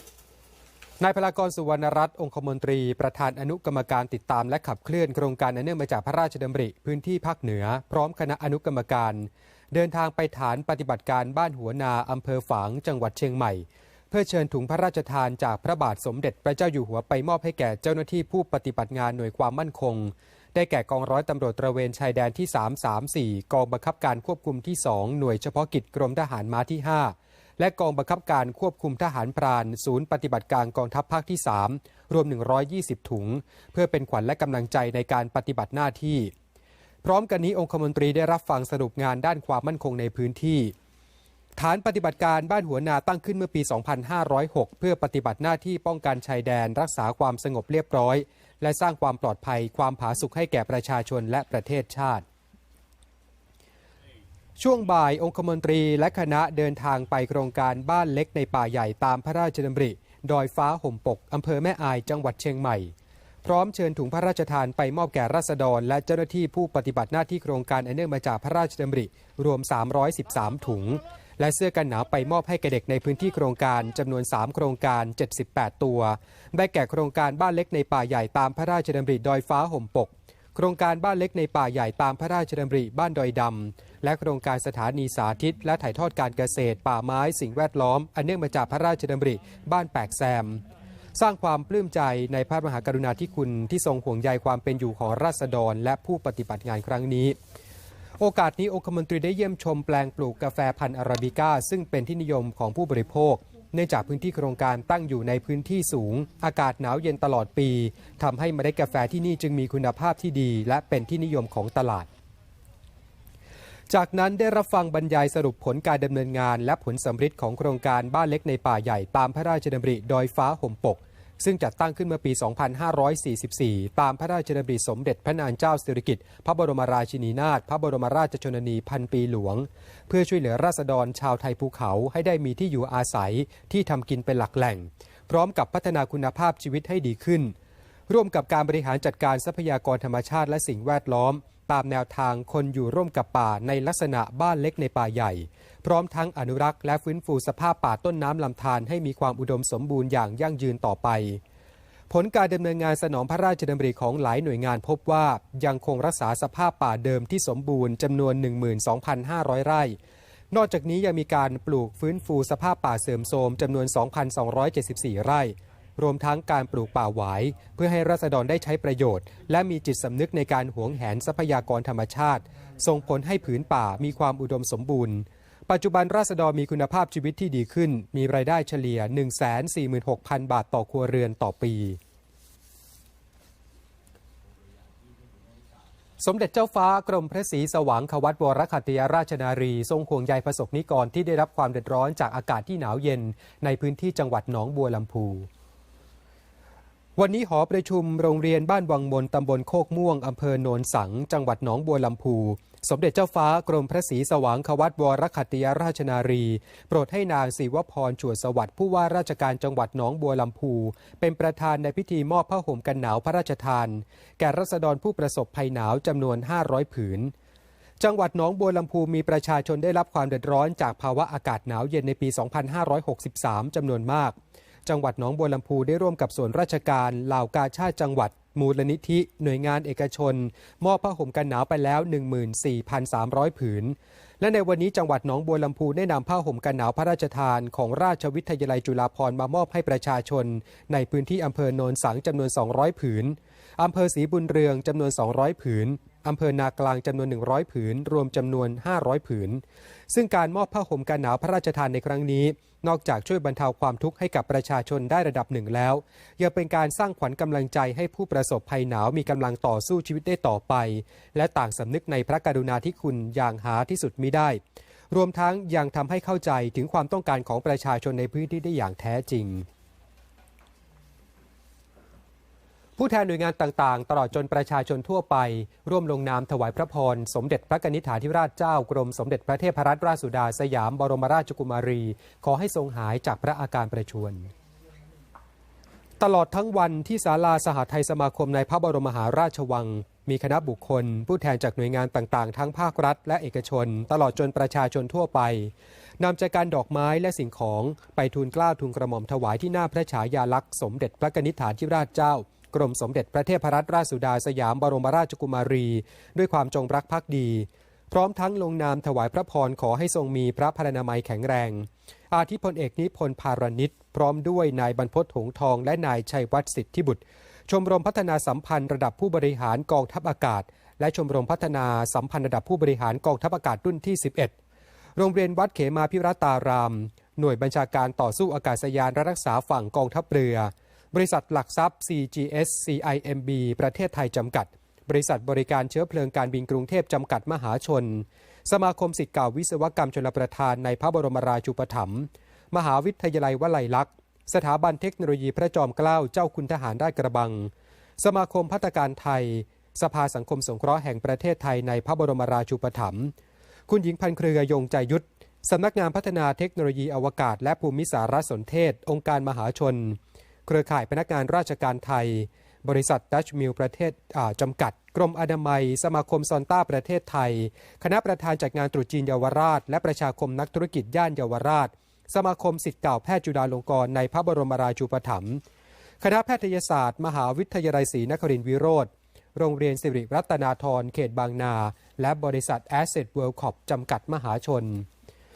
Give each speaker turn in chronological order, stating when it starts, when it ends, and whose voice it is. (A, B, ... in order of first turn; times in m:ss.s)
0:01.0-0:36.3 A
0:37.0-0:40.7 A
0:41.6-0:52.2 A
0:54.6-1:02.9 A
1:03.4-1:30.6 A
1:31.2-1:37.4 A
1:38.2-1:52.1 A
1:53.9-2:17.5 A
2:18.1-2:31.4 A
2:32.1-2:40.0 A
2:40.5-3:02.0 A
3:06.2-3:15.5 A
3:17.2-3:37.3 A
3:38.0-4:24.6 A
4:25.1-4:29.7 A
4:33.0-4:44.5 A
4:46.2-5:24.6 A
5:25.2-5:53.3 A
5:53.9-6:15.6 A
6:16.2-6:25.1 A